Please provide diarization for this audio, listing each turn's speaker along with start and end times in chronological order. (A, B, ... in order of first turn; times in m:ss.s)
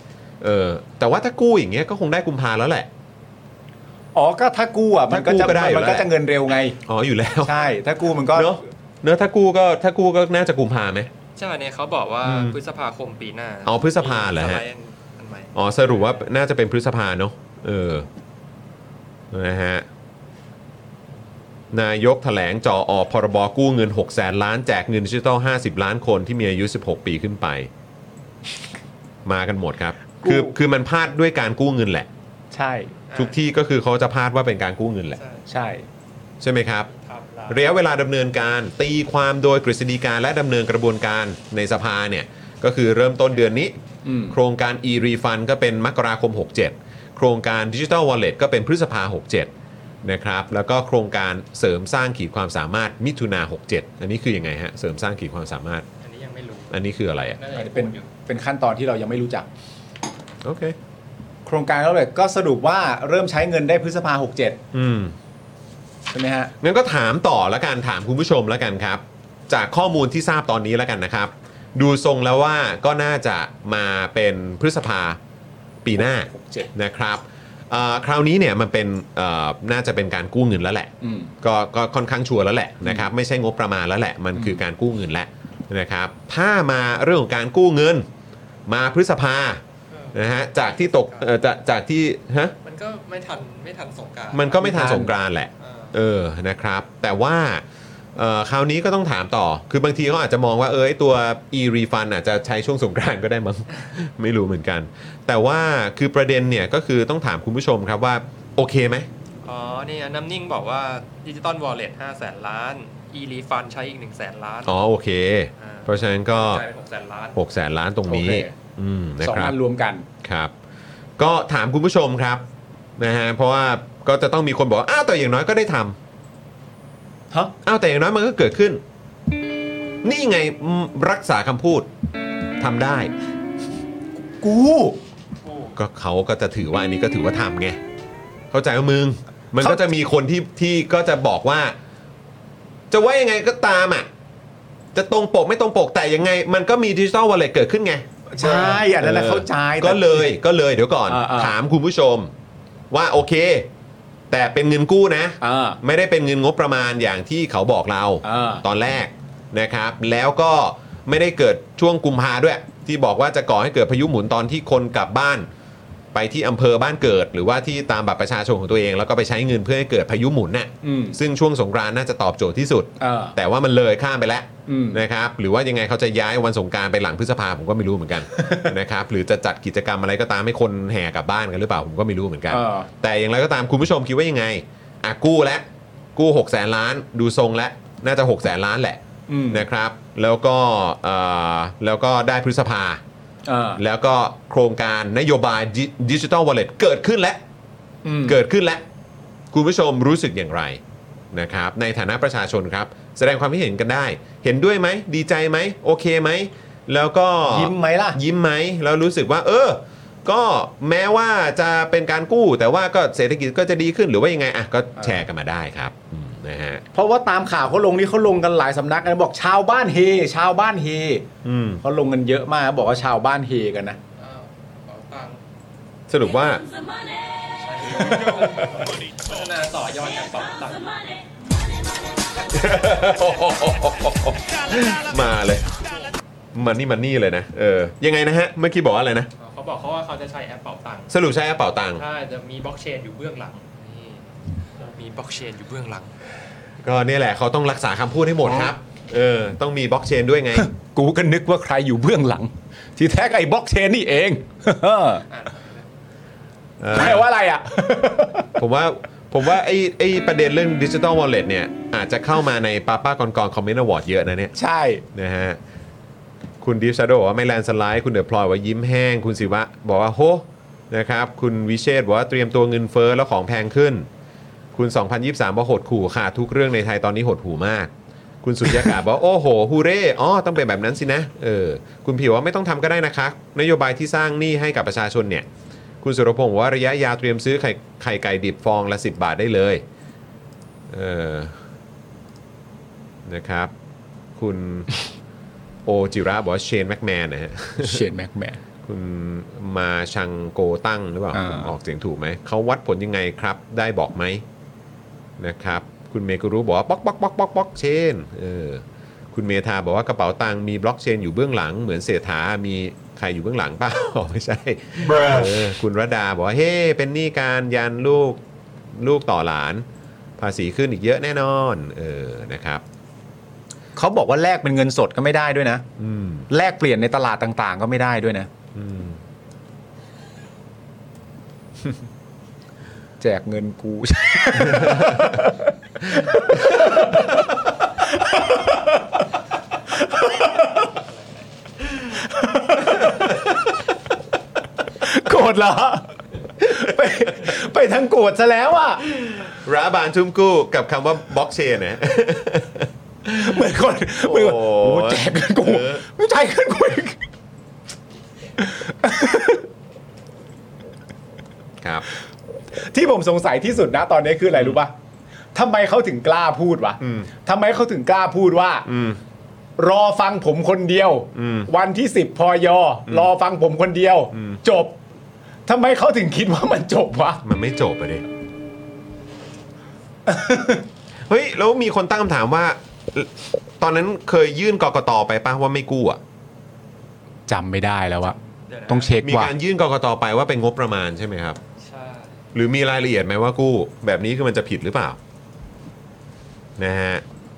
0:00.4-0:02.9 A
0:04.2-0:06.8 B
0:05.1-0:06.1 A
0:06.8-0:07.6 A
0:07.4-0:08.5 B
0:08.3-0:11.1 A
0:11.4-0:16.1 C
0:12.2-0:12.6 A
0:13.6-0:14.6 A
0:15.6-0:18.1 A
0:19.3-0:19.9 A
0:21.7-0:27.7 A
0:29.2-0:32.1 A
0:30.2-0:30.6 B
0:32.5-0:32.9 B
0:33.1-0:33.4 C
0:33.2-0:35.2 A
0:35.1-0:35.4 C
0:35.5-0:35.8 B
0:36.4-0:36.9 A
0:36.9-0:37.7 C
0:37.5-0:43.7 A
0:44.0-0:44.4 B
0:44.3-0:49.5 A
0:50.0-0:55.9 A
0:56.0-0:58.1 C
0:56.7-0:57.4 A
0:57.5-0:59.5 B
1:00.4-1:00.8 A
1:01.4-1:04.6 B
1:04.7-1:05.2 A
1:06.1-1:06.5 B
1:06.6-1:15.2 A
1:15.8-1:20.9 A
1:16.3-1:16.7 B
1:21.0-1:21.3 B
1:21.4-1:28.1 A
1:28.7-1:29.6 A
1:29.9-1:31.3 C
1:30.1-1:32.5 A
1:32.6-1:34.9 C
1:34.3-1:37.6 A
1:34.6-1:35.1 B
1:35.6-1:36.0 C
1:38.2-1:49.1 A
1:49.4-1:54.8 C
1:54.6-1:56.6 A
1:55.6-1:57.4 C
1:57.4-1:59.5 A
1:58.1-1:58.6 B
1:59.2-2:00.1 B
2:00.2-2:00.5 A
2:01.2-2:02.4 A
2:03.0-2:06.0 A
2:07.6-2:08.8 A
2:10.0-2:11.9 A
2:12.6-2:13.1 A
2:14.2-2:15.0 B
2:15.4-2:15.7 C
2:15.7-2:17.8 A
2:18.5-2:21.7 A
2:22.9-2:24.1 A
2:24.9-2:32.3 A
2:28.3-2:30.4 B
2:31.1-2:31.6 B
2:32.9-2:33.7 A
2:34.3-2:45.5 A
2:35.4-2:35.8 B
2:38.2-2:38.6 B
2:46.1-3:05.6 A
2:50.8-2:51.2 B
2:53.0-2:53.4 B
2:54.7-2:55.0 B
2:58.4-2:58.7 B
3:02.5-3:02.9 B
3:06.2-3:13.0 A
3:09.3-3:09.6 B
3:13.4-3:13.8 B
3:13.8-3:17.4 A
3:18.0-3:18.4 B
3:18.2-3:18.8 A
3:19.5-3:20.8 A
3:21.3-3:36.8 A
3:27.5-3:28.2 B
3:36.9-3:41.3 B
3:41.4-3:41.8 A
3:41.8-3:44.0 B
3:44.2-3:45.4 C
3:46.1-3:46.6 A
3:47.6-3:51.1 C
3:52.5-3:55.8 A
3:56.5-3:59.3 A
3:59.4-4:01.1 C
4:01.1-4:02.0 A
4:02.0-4:06.1 C
4:06.8-4:10.7 A
4:10.6-4:15.2 B
4:15.3-4:15.9 C
4:16.8-4:17.3 A
4:16.9-4:18.5 B
4:18.6-4:24.6 A
4:24.6-4:25.0 B
4:25.1-4:25.6 A
4:26.6-4:34.1 A
4:34.7-4:37.9 A
4:38.4-4:45.5 A
4:46.0-4:49.8 A
4:50.9-4:51.6 A
4:53.3-4:53.7 A
4:54.4-4:54.9 A
4:55.9-4:58.1 A
4:57.8-4:58.6 B
4:58.8-5:04.4 A
5:01.3-5:01.7 B
5:05.4-5:18.4 A
5:18.9-5:19.8 A
5:20.4-5:22.8 A
5:24.0-5:25.9 B
5:26.0-5:26.5 A
5:26.5-5:28.5 B
5:28.7-5:29.2 A
5:33.2-5:37.4 B
5:34.6-5:35.3 A
5:38.0-5:39.2 B
5:40.0-5:40.9 B
5:40.9-5:41.5 C
5:42.1-5:43.4 B
5:43.0-5:43.3 A
5:45.0-5:49.0 B
5:49.1-5:53.6 A
5:53.3-5:57.2 B
5:54.2-5:56.0 A
5:58.6-5:59.6 B
6:02.8-6:04.9 B
6:05.5-6:08.9 B
6:07.0-6:07.3 A
6:08.9-6:09.2 A
6:09.8-6:15.0 B
6:11.4-6:11.7 A
6:14.3-6:14.6 A
6:15.6-6:17.4 B
6:17.4-6:18.2 A
6:20.3-6:20.8 B
6:21.3-6:26.2 A
6:27.5-6:28.4 B
6:28.7-6:29.2 C
6:28.9-6:29.5 B
6:29.2-6:31.6 A
6:31.8-6:32.4 C
6:32.5-6:35.2 A
6:36.8-6:37.2 A